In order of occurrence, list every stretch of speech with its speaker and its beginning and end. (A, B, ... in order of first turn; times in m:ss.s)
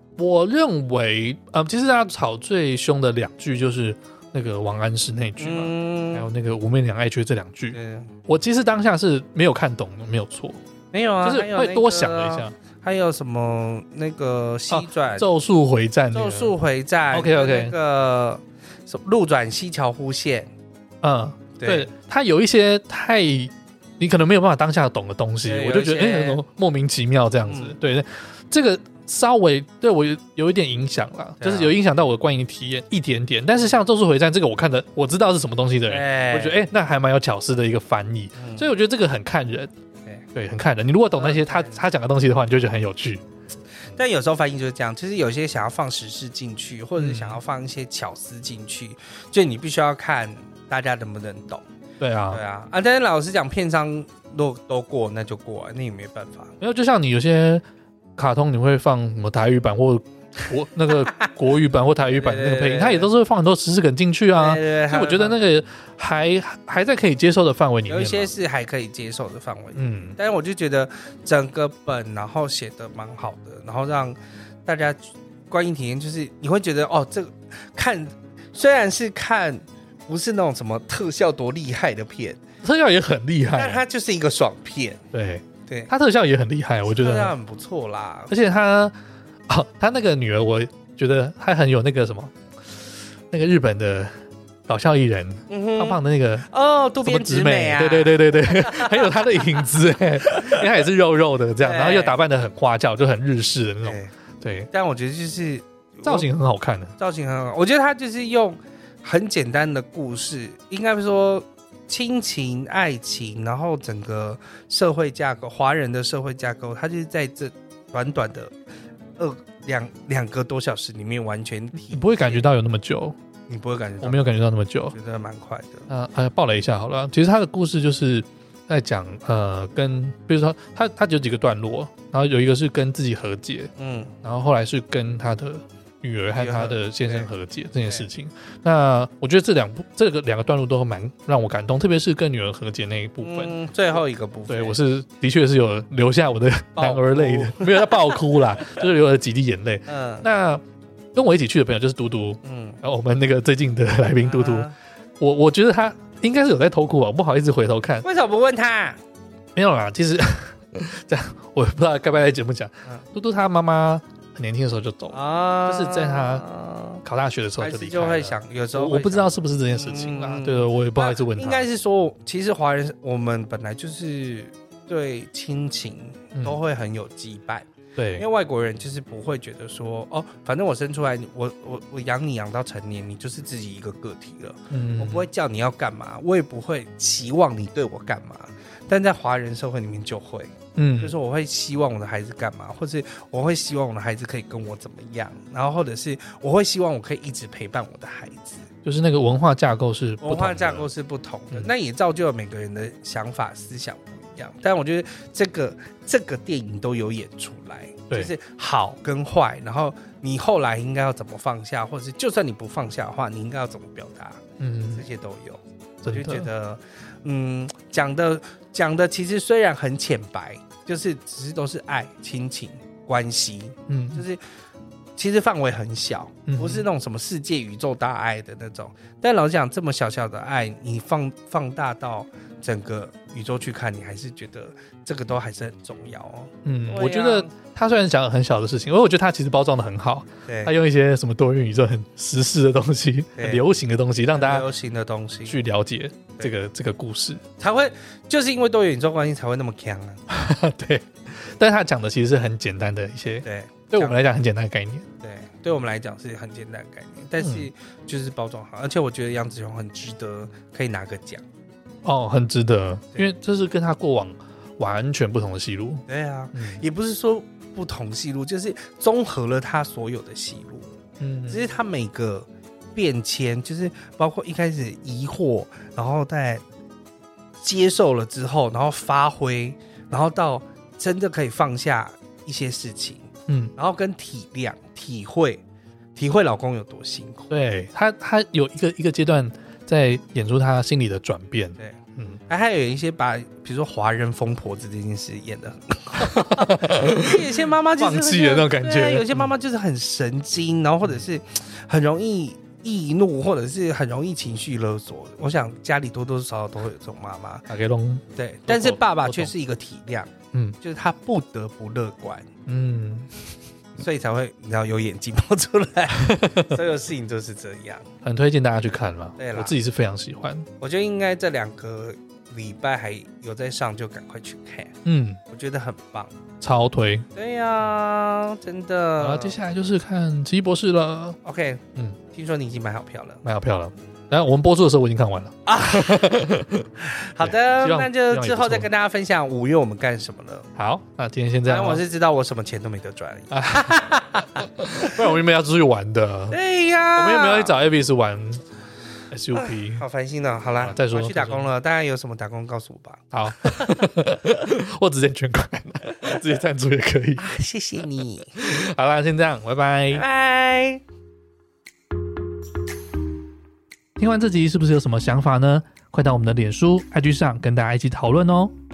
0:00.2-0:10.6 A
0:05.4-0:06.2 B
0:07.7-0:08.1 B
0:10.9-0:15.2 B
0:11.2-0:12.5 A
0:14.7-0:16.5 A
0:16.1-0:20.5 B
0:17.1-0:17.7 A
0:21.0-0:39.7 A
0:21.6-0:21.9 B
0:25.4-0:26.4 B
0:27.5-0:27.7 B
0:31.4-0:31.7 B
0:35.9-0:36.6 B
0:38.4-0:38.7 B
0:40.3-0:43.2 A
0:41.2-0:41.8 B
0:43.9-0:51.6 B
0:47.0-0:47.4 A
0:52.0-0:52.4 A
0:52.3-0:56.5 B
0:56.6-0:57.6 A
0:58.2-1:08.3 A
1:00.9-1:01.3 B
1:02.2-1:03.1 B
1:04.3-1:05.4 B
1:07.9-1:22.4 B
1:09.8-1:10.2 A
1:22.6-1:23.8 A
1:23.5-1:25.0 B
1:25.1-1:27.3 A
1:26.9-1:28.3 B
1:28.3-1:28.9 A
1:29.5-1:32.3 A
1:33.3-1:34.1 A
1:34.7-1:36.5 A
1:35.5-1:39.6 B
1:37.0-1:44.7 A
1:40.2-1:40.6 B
1:41.6-1:42.2 B
1:43.8-1:44.1 B
1:44.7-1:46.3 B
1:46.0-1:47.0 A
1:47.0-1:58.5 B
1:59.2-2:02.5 B
2:01.7-2:03.2 A
2:03.5-2:04.3 B
2:04.0-2:04.9 A
2:04.9-2:05.9 B
2:05.9-2:13.7 A
2:13.8-2:14.1 B
2:14.2-2:23.5 A
2:16.3-2:17.3 B
2:23.2-2:24.8 B
2:24.5-2:30.6 A
2:26.8-2:28.8 B
2:29.9-2:30.2 B
2:31.1-2:34.7 A
2:32.4-2:32.8 B
2:34.2-2:34.7 B
2:35.2-2:38.0 A
2:38.0-2:39.0 B
2:39.5-2:46.4 A
2:45.1-2:47.0 B
2:47.0-2:51.6 A
2:47.6-3:18.7 B
2:58.0-2:58.2 A
3:04.7-3:05.3 A
3:10.8-3:11.2 A
3:18.8-3:20.9 A
3:20.2-3:44.4 B
3:34.6-3:35.0 A
3:36.0-3:36.5 A
3:43.9-3:44.2 A
3:45.2-3:57.5 B
3:46.5-3:46.8 A
3:56.6-4:04.6 A
4:00.5-4:00.7 B
4:03.4-4:03.6 B
4:04.3-4:05.6 B
4:05.4-4:07.4 A
4:07.6-4:10.2 B
4:10.3-4:15.0 A
4:13.4-4:14.2 B
4:15.2-4:21.4 B
4:17.4-4:17.7 A
4:22.0-4:26.8 A
4:26.1-4:30.9 B
4:31.2-4:31.6 A
4:31.5-4:36.6 B
4:37.6-4:45.6 B
4:46.2-4:47.5 B
4:47.5-4:52.4 A
4:51.8-5:07.7 B
4:56.2-4:59.5 A
5:07.7-5:09.5 A
5:08.3-5:12.5 B
5:12.7-5:13.3 A
5:14.0-5:18.0 B
5:16.2-5:16.8 A
5:18.2-5:20.7 A
5:19.4-5:19.7 B
5:20.8-5:24.9 B
5:25.0-5:25.4 A
5:25.5-5:26.3 B
5:26.6-5:27.3 A
5:27.3-5:29.6 B
5:29.2-5:31.4 A
5:31.4-5:33.4 B
5:33.4-5:38.9 A
5:35.6-5:36.3 B
5:37.1-5:40.7 B
5:40.8-5:42.0 A
5:41.7-5:45.3 B
5:43.5-5:46.6 A
5:46.5-5:47.7 B
5:47.2-5:48.6 A
5:49.3-5:50.0 A
5:49.5-5:53.8 B
5:50.8-5:51.6 A
5:53.3-5:57.4 A
5:57.4-5:58.6 B
5:58.6-6:00.2 A
6:00.1-6:01.0 B
6:04.2-6:08.7 A